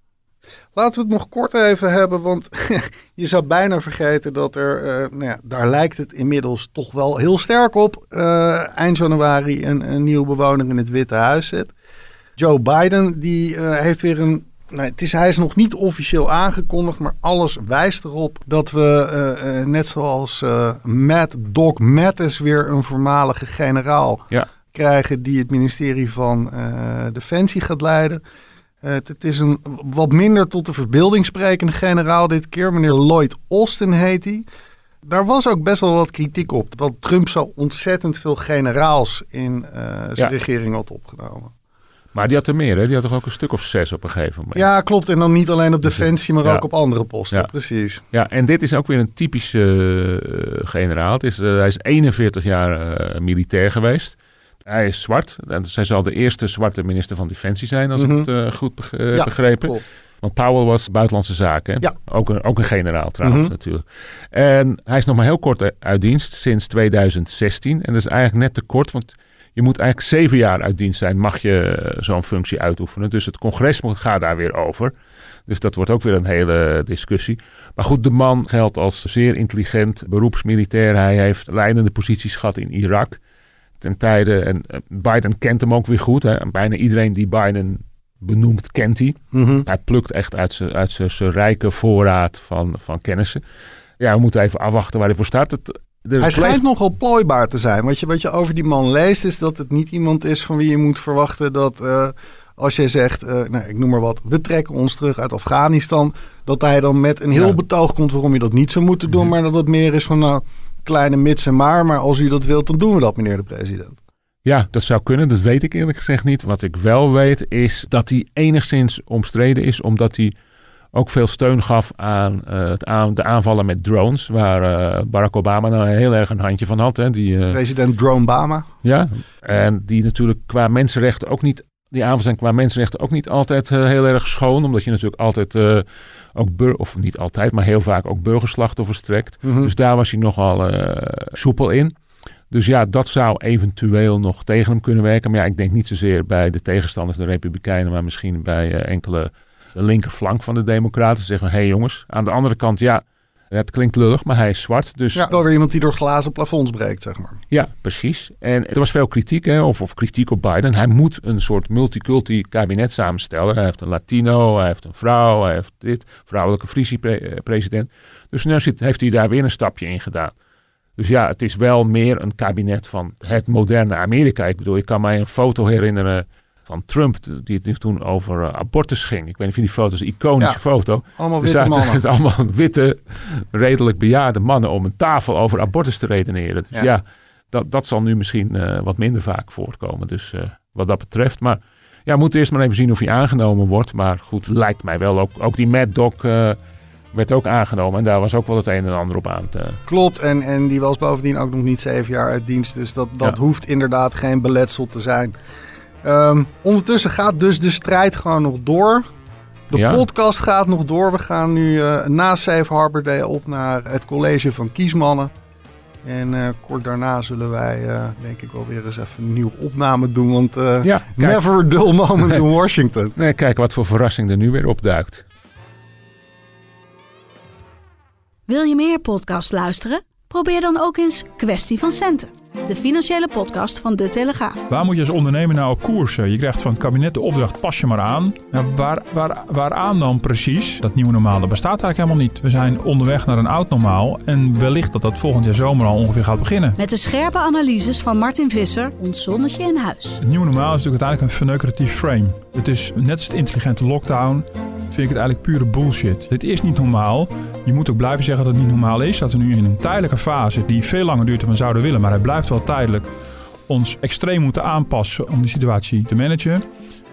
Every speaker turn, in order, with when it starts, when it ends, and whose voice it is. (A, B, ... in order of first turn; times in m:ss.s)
0:00.8-0:11.7 A
0:12.4-0:28.2 A
0:28.8-0:34.4 A
0:35.0-0:41.5 A
0:42.1-0:44.6 B
0:44.6-0:48.0 A
0:48.1-1:14.9 B
0:58.0-0:58.3 A
0:59.1-0:59.8 A
1:03.2-1:03.5 A
1:15.5-1:23.2 B
1:23.8-1:33.4 B
1:29.3-1:29.6 A
1:34.0-1:36.6 B
1:36.2-1:54.0 A
1:54.4-2:00.3 B
2:00.9-2:07.6 B
2:07.5-2:08.7 A
2:08.8-2:21.9 B
2:19.4-2:19.7 A
2:22.5-2:35.3 B
2:35.1-2:37.4 A
2:37.5-2:50.3 B
2:51.0-3:16.6 B
3:00.4-3:02.0 A
3:17.1-3:19.8 B
3:19.9-3:25.4 A
3:26.0-3:29.1 A
3:29.7-3:35.3 A
3:29.7-3:30.0 B
3:36.0-3:43.1 A
3:40.8-3:41.4 B
3:43.2-3:45.2 B
3:48.5-3:54.6 C
3:54.7-4:06.8 D
4:06.8-4:10.2 C
4:10.2-4:23.1 D
4:23.7-4:26.6 D